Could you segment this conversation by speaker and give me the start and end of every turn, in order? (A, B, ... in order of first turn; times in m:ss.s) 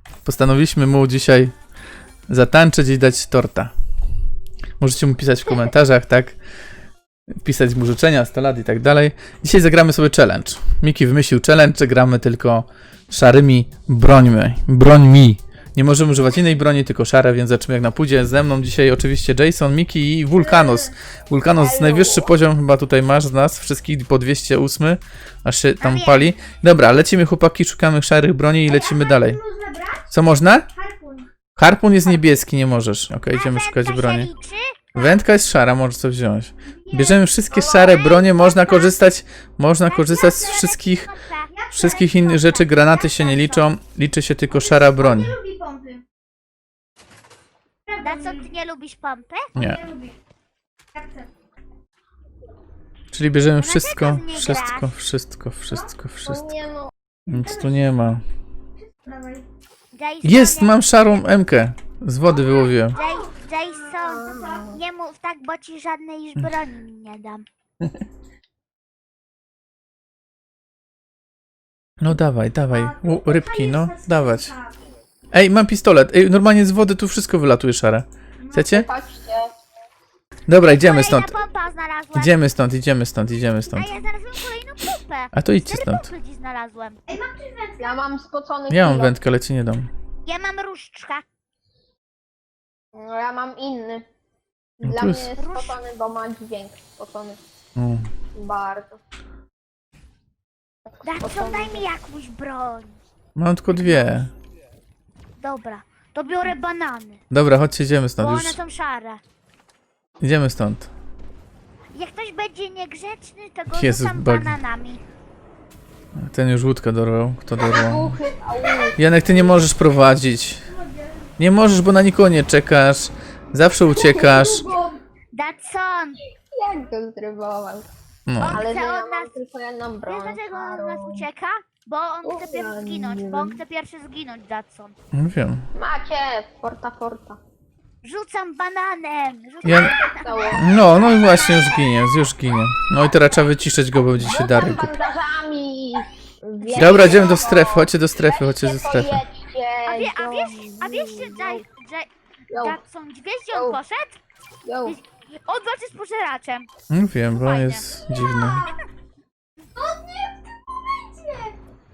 0:00.2-0:01.5 A
0:02.3-0:03.7 A
0:04.8-0:06.4 A
0:07.4-0:29.4 A
0:20.3-0:20.9 B
0:21.6-0:22.3 C
0:25.8-0:26.3 D
0:28.6-0:30.1 B
0:30.1-0:30.7 A
0:30.7-0:31.3 B
0:31.6-0:34.3 A
0:33.3-0:35.2 D
0:34.9-0:41.1 A
0:36.8-0:37.2 B
0:37.5-0:38.1 C
0:38.0-0:39.0 D
0:39.9-0:41.5 D
0:40.2-0:40.5 B
0:41.5-0:43.6 B
0:41.7-0:45.3 A
0:43.3-0:43.6 D
0:44.5-0:46.0 B
0:47.9-0:48.5 B
0:48.0-0:49.5 D
0:49.6-0:49.8 A
0:49.6-0:50.2 B
0:50.9-0:51.3 B
0:53.1-0:56.5 A
0:53.6-0:54.9 D
0:56.2-0:56.9 C
0:57.3-0:57.9 B
0:57.3-0:58.2 A
0:58.8-0:59.4 B
0:59.9-1:01.2 D
1:00.2-1:03.0 A
1:02.3-1:04.8 B
1:02.9-1:07.4 D
1:04.0-1:04.8 C
1:12.0-1:14.5 A
1:12.7-1:14.8 B
1:15.3-1:18.9 A
1:18.6-1:19.5 C
1:20.5-1:21.4 A
1:20.6-1:22.4 D
1:22.1-1:24.0 A
1:23.7-1:27.0 D
1:25.3-1:26.1 A
1:27.1-1:28.0 B
1:27.8-1:29.2 C
1:28.7-1:29.9 A
1:30.2-1:31.2 D
1:32.9-1:34.0 C
1:34.8-1:37.4 C
1:34.8-1:35.3 A
1:35.4-1:35.8 D
1:37.8-1:38.1 A
1:38.3-1:39.0 C
1:40.9-1:41.8 C
1:41.0-1:43.0 D
1:43.4-1:44.3 A
1:43.8-1:44.3 D
1:45.4-1:47.2 D
1:47.3-1:48.6 A
1:48.2-1:49.2 D
1:50.2-1:50.9 A
1:51.9-1:55.0 D
1:53.7-1:54.6 A
1:56.2-1:58.1 A
1:57.6-1:59.6 C
1:59.0-2:00.6 A
2:00.7-2:01.2 B
2:01.4-2:04.7 A
2:04.0-2:04.4 C
2:04.0-2:05.0 B
2:05.3-2:06.2 D
2:06.6-2:07.9 C
2:08.3-2:08.6 A
2:08.4-2:09.3 D
2:08.4-2:11.2 C
2:10.1-2:14.9 D
2:12.2-2:13.6 C
2:15.1-2:15.6 A
2:15.7-2:17.4 C
2:18.0-2:20.8 D
2:19.6-2:19.9 A
2:20.0-2:20.8 C
2:20.6-2:24.9 A
2:24.2-2:31.6 C
2:26.6-2:27.4 D
2:26.8-2:29.2 A
2:29.9-2:34.2 D
2:32.5-2:32.8 C
2:33.5-2:33.8 C
2:34.6-2:35.0 C
2:34.8-2:36.7 D
2:36.9-2:38.7 A
2:37.3-2:38.7 D
2:38.3-2:38.8 B
2:39.7-2:41.5 B